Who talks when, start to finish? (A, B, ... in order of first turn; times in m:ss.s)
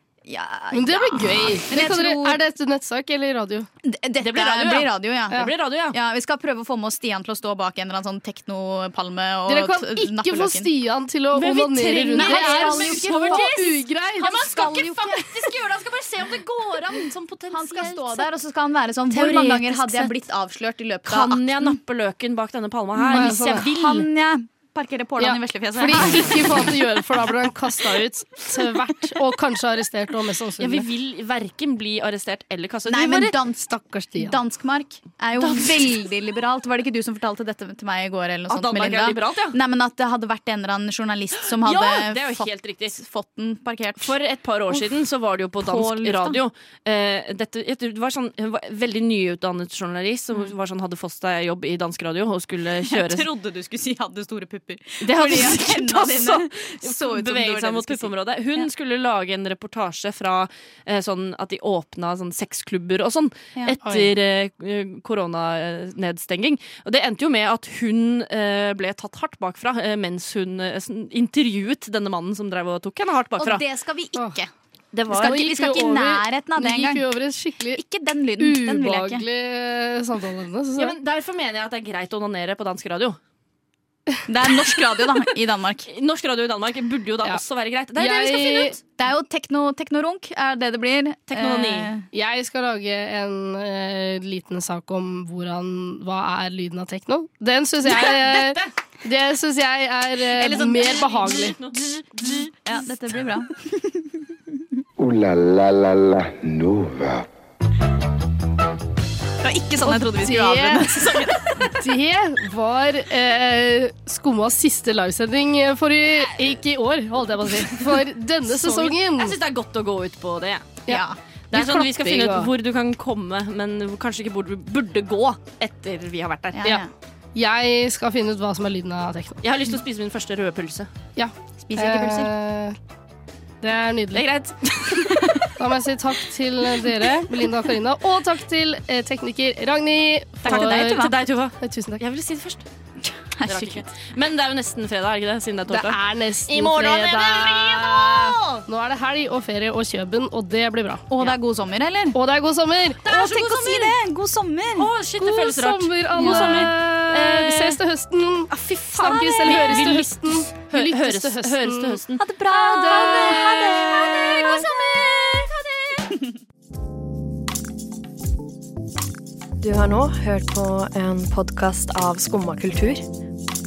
0:00.2-0:02.4 A
0:00.7-0:03.7 B
0:03.8-0:10.7 A
0:04.2-0:06.0 C
0:09.5-0:14.4 B
0:11.3-0:18.3 C
0:12.1-0:15.5 A
0:17.5-0:21.8 A
0:19.1-0:20.2 C
0:21.1-0:24.1 C
0:23.0-0:26.6 A
0:23.1-0:23.6 B
0:25.2-0:30.9 B
0:30.6-0:33.4 C
0:32.9-0:44.2 A
0:33.8-0:34.4 B
0:35.4-0:36.0 C
0:38.5-0:39.6 C
0:41.5-0:43.0 C
0:44.0-0:53.3 C
0:44.7-0:45.0 A
0:45.6-0:46.4 A
0:52.9-0:58.7 A
0:55.0-1:13.6 C
1:03.8-1:04.1 B
1:13.4-1:14.5 A
1:14.9-1:15.6 C
1:15.1-1:17.1 A
1:15.1-1:17.8 B
1:17.7-1:19.2 A
1:18.4-1:21.0 B
1:20.8-1:23.2 C
1:24.3-1:25.9 A
1:25.9-1:28.8 C
1:28.0-1:28.8 B
1:29.0-1:32.1 A
1:31.3-1:31.9 C
1:32.1-1:41.6 B
1:37.9-1:38.7 C
1:40.4-1:41.2 A
1:40.5-1:42.6 C
1:41.7-1:44.1 A
1:45.0-1:47.3 D
1:49.4-1:51.8 A
1:49.9-1:51.0 B
1:51.6-1:59.4 B
1:57.6-2:00.8 C
2:00.9-2:02.5 B
2:00.9-2:01.2 A
2:01.5-2:06.7 C
2:06.5-2:06.9 A
2:07.4-2:09.4 B
2:09.4-2:10.9 C
2:11.2-2:12.8 B
2:11.6-2:12.3 A
2:13.6-2:14.2 B
2:14.1-2:15.5 C
2:15.6-2:21.1 B
2:20.4-2:21.1 A
2:20.5-2:22.6 C
2:21.6-2:22.0 B
2:23.0-2:23.9 A
2:23.5-2:28.6 C
2:25.7-2:31.0 B
2:31.1-2:32.2 A
2:32.1-2:33.0 B
2:33.0-2:34.9 A
2:33.0-2:34.0 C
2:34.8-2:37.8 C
2:35.2-2:42.0 B
2:36.1-2:36.7 A
2:38.5-2:46.2 C
2:42.2-2:44.7 A
2:49.6-2:53.0 E